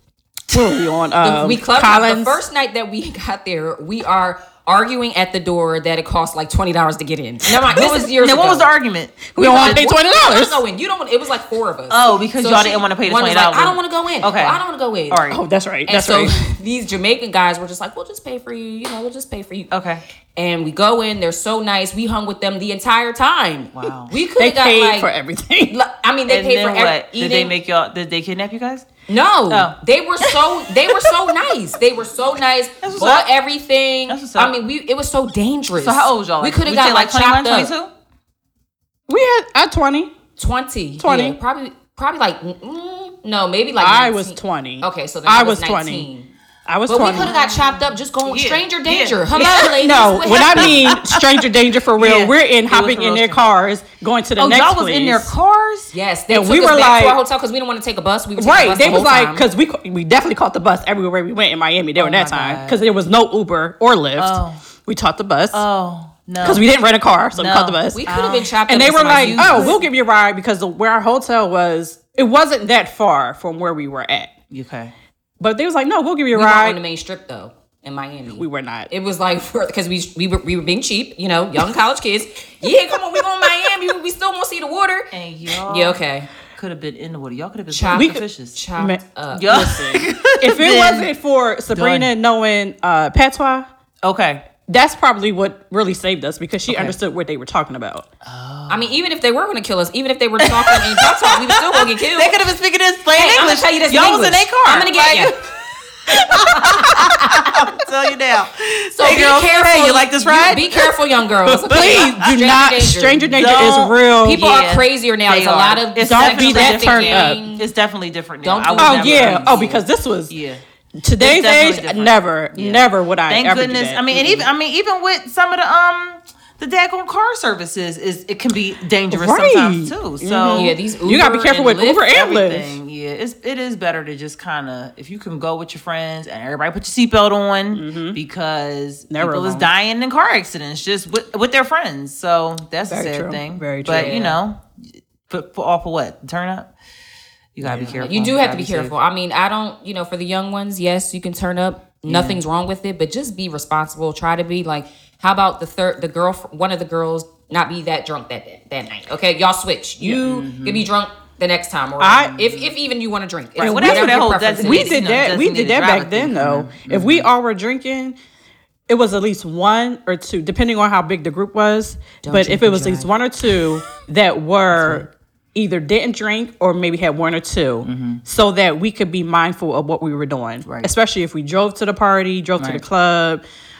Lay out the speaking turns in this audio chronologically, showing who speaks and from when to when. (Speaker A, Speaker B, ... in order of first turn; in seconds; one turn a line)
Speaker A: 0.5-2.4
Speaker B: 1.2-8.7
Speaker C: 7.7-9.8
Speaker A: 9.3-10.6
Speaker B: 9.4-15.2
Speaker C: 11.9-15.4
Speaker A: 15.3-16.4
Speaker B: 15.9-19.7
Speaker C: 19.7-20.0
Speaker B: 20.4-25.1
Speaker C: 23.7-24.1
Speaker A: 24.4-25.8
Speaker B: 25.7-27.5
Speaker C: 26.3-28.9
Speaker B: 29.1-37.7
Speaker C: 29.5-29.8
Speaker C: 32.8-33.3
Speaker C: 34.1-34.6
Speaker C: 35.7-37.9
Speaker A: 39.1-40.1
Speaker B: 40.4-46.3
Speaker A: 41.0-41.4
Speaker A: 43.8-46.1
Speaker A: 46.7-47.3
Speaker B: 46.9-50.9
Speaker C: 47.1-49.6
Speaker A: 49.3-55.3
Speaker C: 50.5-51.4
Speaker C: 52.0-53.4
Speaker C: 54.4-55.9
Speaker B: 55.9-59.5
Speaker A: 56.3-57.2
Speaker A: 58.4-65.6
Speaker C: 62.0-62.8
Speaker C: 64.2-64.6
Speaker C: 65.5-66.7
Speaker A: 66.4-68.0
Speaker C: 67.3-69.8
Speaker B: 67.9-69.8
Speaker A: 68.7-74.3
Speaker C: 74.5-74.9
Speaker A: 75.4-76.8
Speaker B: 76.3-85.1
Speaker A: 78.3-78.9
Speaker C: 85.1-88.6
Speaker B: 85.7-86.3
Speaker B: 87.7-89.6
Speaker A: 87.9-88.2
Speaker A: 88.8-93.7
Speaker C: 89.3-91.1
Speaker C: 91.7-92.1
Speaker C: 94.0-94.5
Speaker A: 94.7-98.1
Speaker C: 96.7-97.0
Speaker C: 98.2-99.0
Speaker B: 98.7-102.4
Speaker C: 100.5-105.4
Speaker B: 103.1-105.3
Speaker C: 106.1-110.9
Speaker B: 106.3-107.2
Speaker B: 109.0-113.4
Speaker A: 111.5-114.4
Speaker C: 111.7-112.1
Speaker C: 113.4-120.6
Speaker B: 114.2-117.7
Speaker A: 116.1-117.4
Speaker B: 118.4-119.7
Speaker A: 118.8-120.3
Speaker A: 121.0-124.5
Speaker C: 121.2-130.8
Speaker A: 129.1-132.8
Speaker B: 130.5-132.1
Speaker C: 132.0-144.7
Speaker A: 137.7-138.2
Speaker A: 139.1-139.7
Speaker A: 142.9-144.2
Speaker B: 143.8-144.4
Speaker C: 145.3-146.7
Speaker C: 147.6-148.9
Speaker A: 147.6-148.0
Speaker B: 147.9-165.0
Speaker C: 152.1-152.4
Speaker C: 160.0-160.9
Speaker A: 162.0-162.5
Speaker C: 162.3-162.7
Speaker C: 163.6-167.3
Speaker A: 163.6-168.2
Speaker A: 168.9-183.4
Speaker B: 172.2-173.1
Speaker C: 177.8-178.2
Speaker C: 180.6-180.9